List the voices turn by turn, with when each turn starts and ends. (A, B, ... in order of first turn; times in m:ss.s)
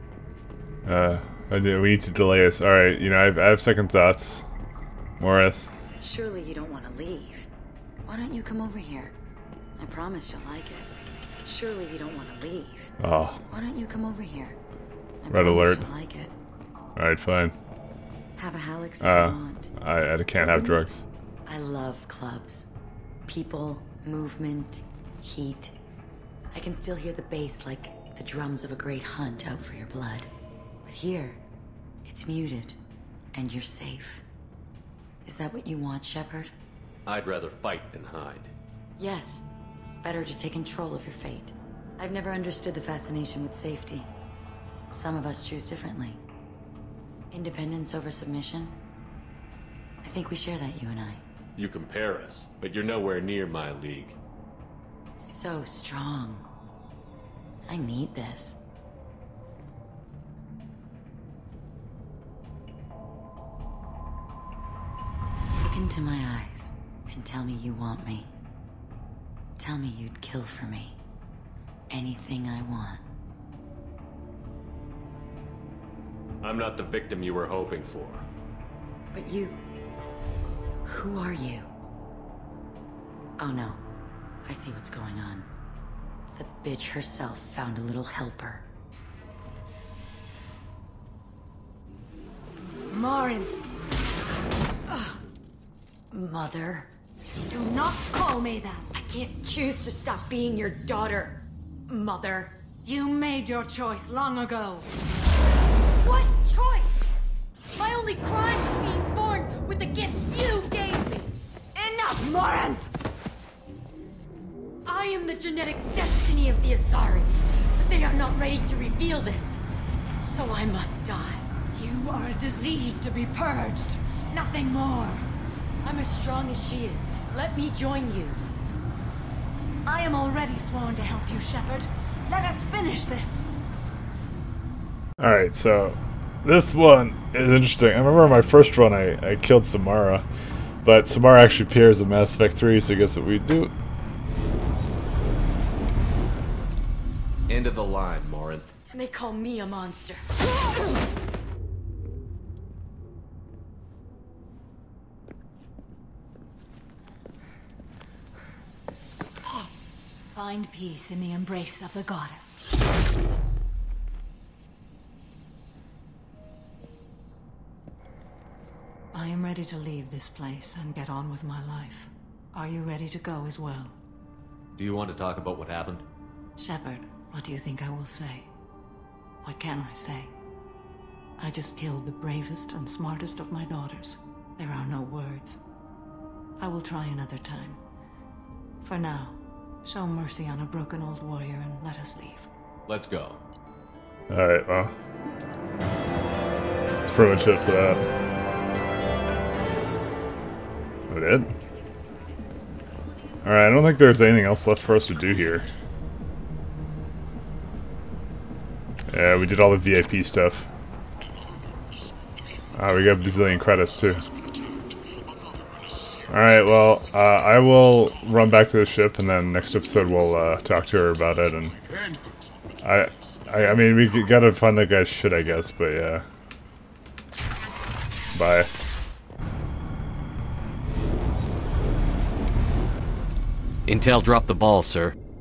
0:00.8-0:04.4 A
0:05.2-0:05.7 A
0:06.0-0:07.5 B
0:08.0-0:09.1 B
0:09.8-0:10.9 B
0:11.4-0:12.9 B
0:13.0-0:13.4 A
0:13.5-0:14.6 B
0:15.2-0:16.3 B
0:15.3-0:15.9 A
0:17.0-0:17.5 A
0:18.4-0:19.7 B
0:19.0-0:21.0 A
0:21.4-0:22.6 B
0:23.2-0:25.7 B
0:26.5-0:30.3 B
0:30.8-0:31.4 B
0:32.0-0:32.8 B
0:33.3-0:34.2 B
0:35.2-0:36.5 B
0:37.0-0:38.5 C
0:39.0-0:39.4 B
0:40.0-0:44.1 B
0:44.9-0:46.2 B
0:47.3-0:48.7 B
0:50.0-0:51.2 B
0:51.6-0:54.2 C
0:55.2-0:56.4 B
0:57.7-0:58.6 B
1:05.6-1:08.3 B
1:09.6-1:11.0 B
1:11.9-1:13.0 B
1:16.4-1:18.2 C
1:19.1-1:19.6 B
1:20.8-1:21.7 B
1:23.4-1:23.8 B
1:24.4-1:25.5 B
1:26.3-1:28.6 B
1:32.9-1:33.5 D
1:34.9-1:35.2 B
1:36.1-1:36.9 B
1:37.5-1:39.0 D
1:38.9-1:42.6 B
1:42.8-1:44.8 D
1:46.0-1:46.9 B
1:47.8-1:51.3 B
1:51.8-1:52.4 B
1:52.3-1:52.8 D
1:54.8-1:59.6 B
2:00.2-2:01.6 B
2:01.7-2:05.2 D
2:05.8-2:08.4 B
2:09.8-2:13.4 D
2:15.2-2:20.2 A
2:20.8-2:23.7 A
2:27.5-2:28.7 C
2:28.9-2:30.2 B
2:40.3-2:42.7 D
2:49.1-2:54.0 D
2:54.8-2:56.0 C
2:56.6-2:58.5 D
2:59.4-3:00.3 D
3:01.4-3:05.6 D
3:06.6-3:07.8 D
3:08.8-3:12.5 D
3:12.9-3:13.4 C
3:14.3-3:14.9 A
3:17.0-3:18.0 A
3:21.1-3:21.5 A
3:23.4-3:25.7 A
3:29.1-3:30.7 A
3:32.7-3:34.2 A
3:36.3-3:41.8 A
3:42.8-3:46.2 A
3:48.3-3:48.7 A
3:53.9-3:55.1 C